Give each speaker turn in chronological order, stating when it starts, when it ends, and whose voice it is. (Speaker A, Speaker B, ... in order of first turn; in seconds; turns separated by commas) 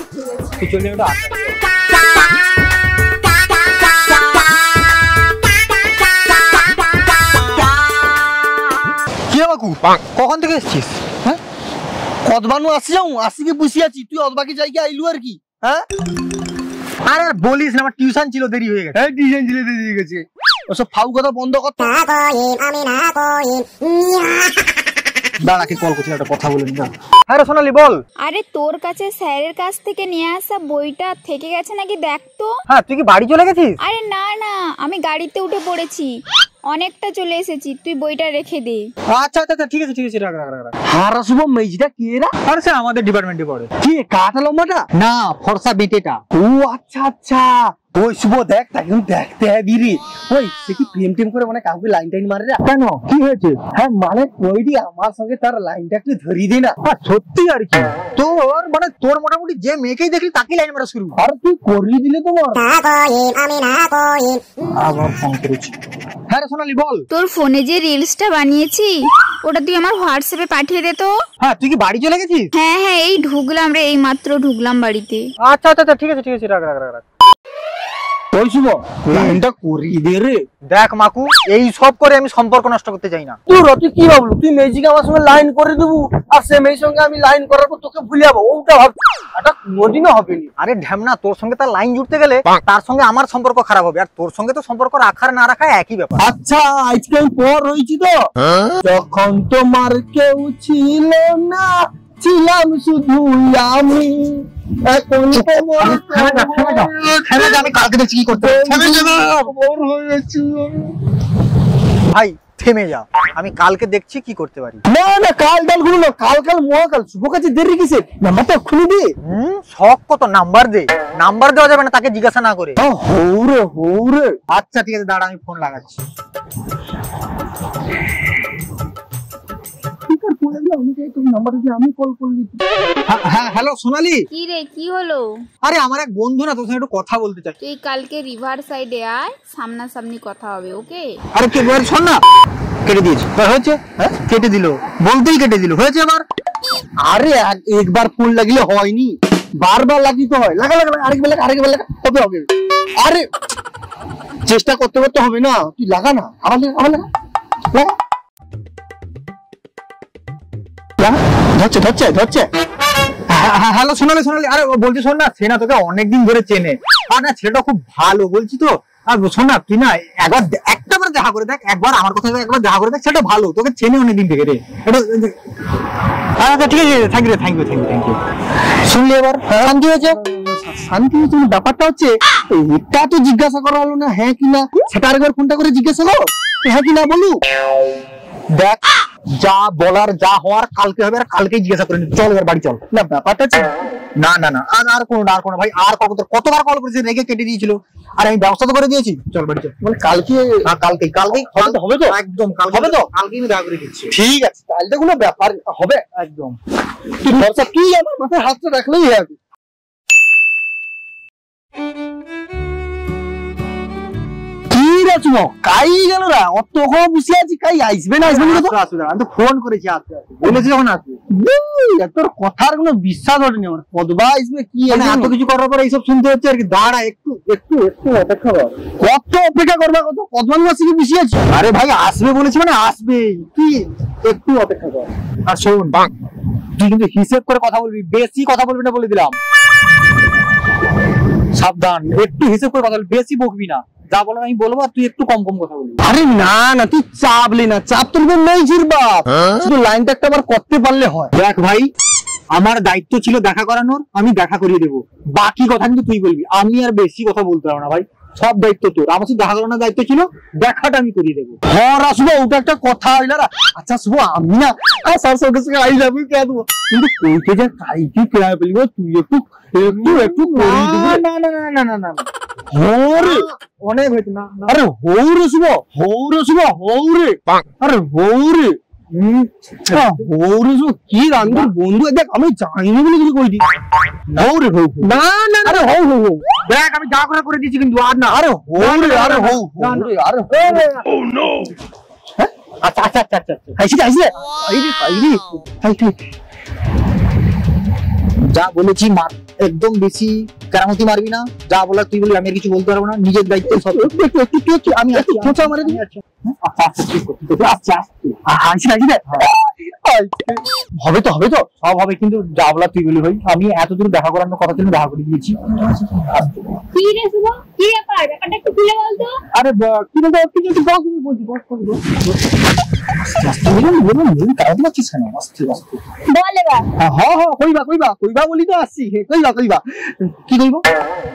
Speaker A: 0.6-1.5, Speaker A: 9.3-11.2, Speaker B: 12.2-15.9, Speaker A: 17.1-19.0, Speaker B: 18.9-22.0, Speaker B: 25.4-26.9, Speaker A: 27.3-28.0, Speaker C: 28.2-32.5, Speaker A: 32.7-33.8, Speaker C: 33.8-36.1, Speaker C: 36.7-38.9, Speaker A: 39.1-40.8, Speaker B: 40.9-42.3, Speaker A: 42.5-43.7, Speaker B: 43.8-44.9, Speaker A: 44.9-46.2, Speaker B: 46.3-52.6, Speaker A: 52.6-53.6, Speaker B: 53.7-56.8, Speaker A: 56.8-61.2, Speaker B: 61.2-62.7, Speaker A: 64.8-65.7, Speaker A: 66.3-67.0, Speaker C: 67.1-71.1, Speaker A: 71.4-72.5, Speaker C: 72.5-75.2, Speaker A: 75.4-77.0, Speaker B: 78.3-80.4, Speaker A: 80.7-83.4, Speaker B: 83.5-90.5, Speaker A: 90.6-96.2, Speaker B: 96.2-107.6, Speaker A: 105.4-109.3, Speaker B: 108.3-111.0, Speaker A: 112.1-114.8, Speaker B: 114.8-119.1, Speaker A: 119.2-122.8, Speaker B: 122.8-124.3, Speaker A: 124.5-126.0, Speaker B: 130.1-132.6, Speaker A: 133.1-134.2, Speaker C: 134.3-135.2, Speaker A: 135.6-137.5, Speaker C: 137.6-141.1, Speaker A: 141.3-142.2, Speaker A: 142.8-146.2, Speaker B: 147.0-153.3, Speaker B: 154.4-157.1, Speaker B: 161.0-162.4, Speaker A: 163.3-175.3, Speaker A: 176.4-178.2, Speaker A: 178.9-180.2, Speaker B: 179.4-187.4, Speaker A: 188.5-188.8, Speaker A: 189.4-192.8, Speaker B: 192.9-193.7, Speaker A: 194.2-199.8, Speaker B: 199.8-200.7, Speaker A: 200.6-204.2, Speaker B: 201.3-202.1, Speaker B: 202.7-203.0, Speaker B: 204.1-206.0, Speaker A: 206.1-206.6, Speaker B: 207.2-209.4, Speaker B: 214.7-218.7, Speaker A: 218.2-221.2, Speaker B: 221.3-225.3, Speaker A: 224.9-228.8, Speaker B: 229.0-231.4, Speaker A: 231.4-236.1, Speaker A: 236.8-239.4, Speaker A: 241.6-246.0, Speaker B: 246.0-251.3, Speaker A: 251.3-251.9, Speaker A: 252.5-261.6, Speaker B: 261.7-271.2, Speaker A: 269.9-272.2, Speaker B: 272.7-273.5, Speaker A: 273.1-274.8, Speaker B: 274.7-278.8, Speaker A: 279.1-280.2, Speaker B: 279.9-283.7, Speaker A: 281.4-281.7, Speaker B: 284.3-286.5, Speaker A: 285.1-285.9, Speaker A: 286.6-291.1, Speaker B: 288.7-290.9, Speaker A: 292.8-293.8, Speaker B: 293.8-296.1, Speaker A: 298.5-304.2, Speaker B: 303.6-306.0, Speaker A: 304.7-309.4, Speaker B: 309.4-310.6, Speaker A: 311.0-316.8, Speaker D: 316.9-319.4, Speaker A: 319.6-321.8, Speaker B: 321.1-322.2, Speaker A: 323.1-326.0, Speaker B: 323.7-324.1, Speaker D: 326.3-326.9, Speaker B: 327.0-330.8